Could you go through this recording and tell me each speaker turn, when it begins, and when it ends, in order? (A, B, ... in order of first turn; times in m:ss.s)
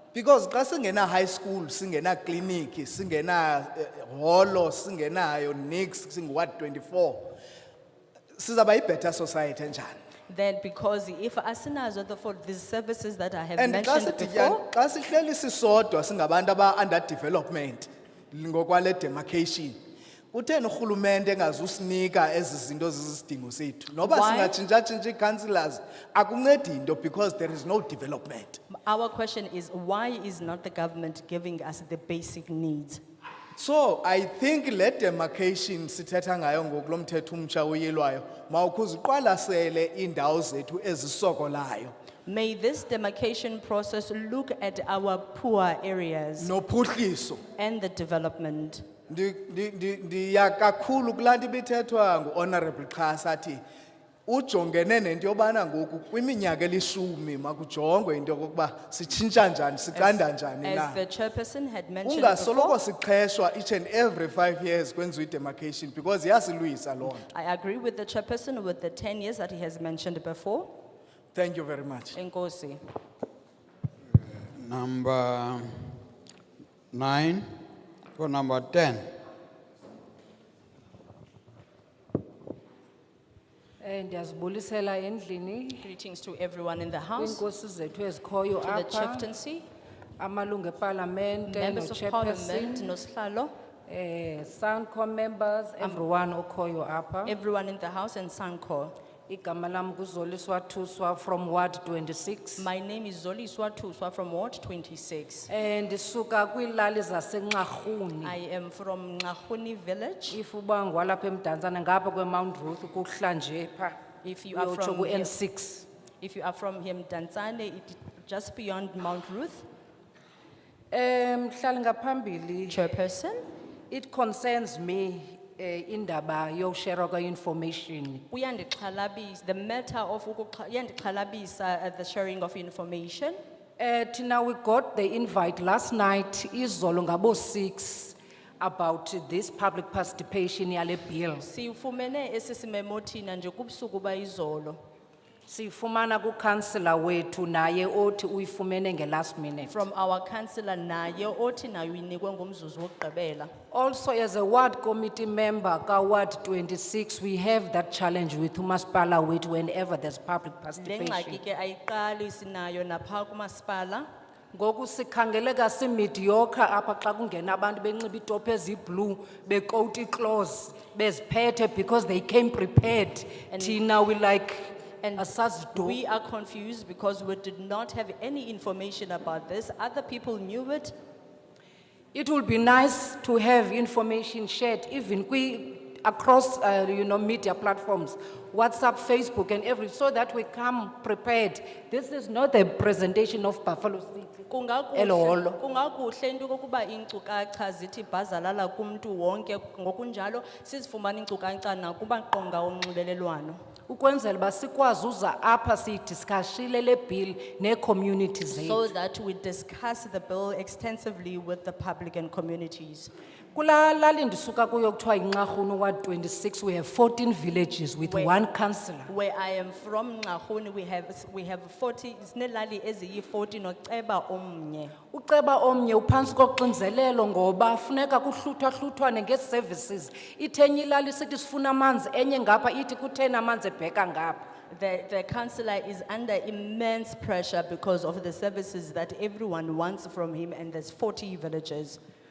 0:00.1-0:07.4 A
0:08.4-0:10.0 A
0:10.3-0:14.6 B
0:13.6-0:19.8 A
0:20.3-0:28.6 A
0:24.0-0:24.6 B
0:28.7-0:33.0 B
0:33.6-0:41.9 A
0:42.3-0:46.5 B
0:46.4-0:47.4 A
0:47.6-0:48.8 B
0:49.1-0:53.6 A
0:54.3-1:01.0 A
1:00.0-1:02.8 B
1:02.0-1:07.3 A
1:07.3-1:10.7 B
1:11.4-1:12.2 A
1:12.1-1:12.8 B
1:14.4-1:16.0 C
1:16.9-1:17.6 C
1:18.2-1:19.1 C
1:23.8-1:25.9 D
1:25.8-1:27.4 B
1:27.2-1:29.3 D
1:28.6-1:29.7 B
1:30.2-1:32.9 D
1:31.5-1:33.5 B
1:33.9-1:37.4 D
1:37.3-1:38.9 B
1:39.3-1:42.7 D
1:42.6-1:45.5 B
1:45.5-1:48.4 D
1:48.2-1:50.4 B
1:50.3-1:54.0 D
1:54.2-1:55.3 B
1:54.5-1:55.9 D
1:56.2-1:59.7 B
2:00.9-2:02.8 D
2:02.7-2:03.4 B
2:03.9-2:08.2 D
2:08.3-2:13.4 B
2:13.8-2:21.5 D
2:21.4-2:24.8 B
2:25.5-2:29.8 D
2:29.7-2:33.5 B
2:33.7-2:41.4 D
2:40.8-2:44.0 B
2:44.5-2:56.0 D
2:53.5-2:53.8 B
2:55.0-3:00.9 B
3:02.1-3:15.6 D
3:14.5-3:23.6 B
3:23.9-3:28.8 D
3:28.5-3:33.1 B
3:33.5-3:39.1 D
3:38.1-3:38.4 B
3:39.1-3:45.0 B
3:45.1-3:54.4 D
3:54.7-4:02.0 B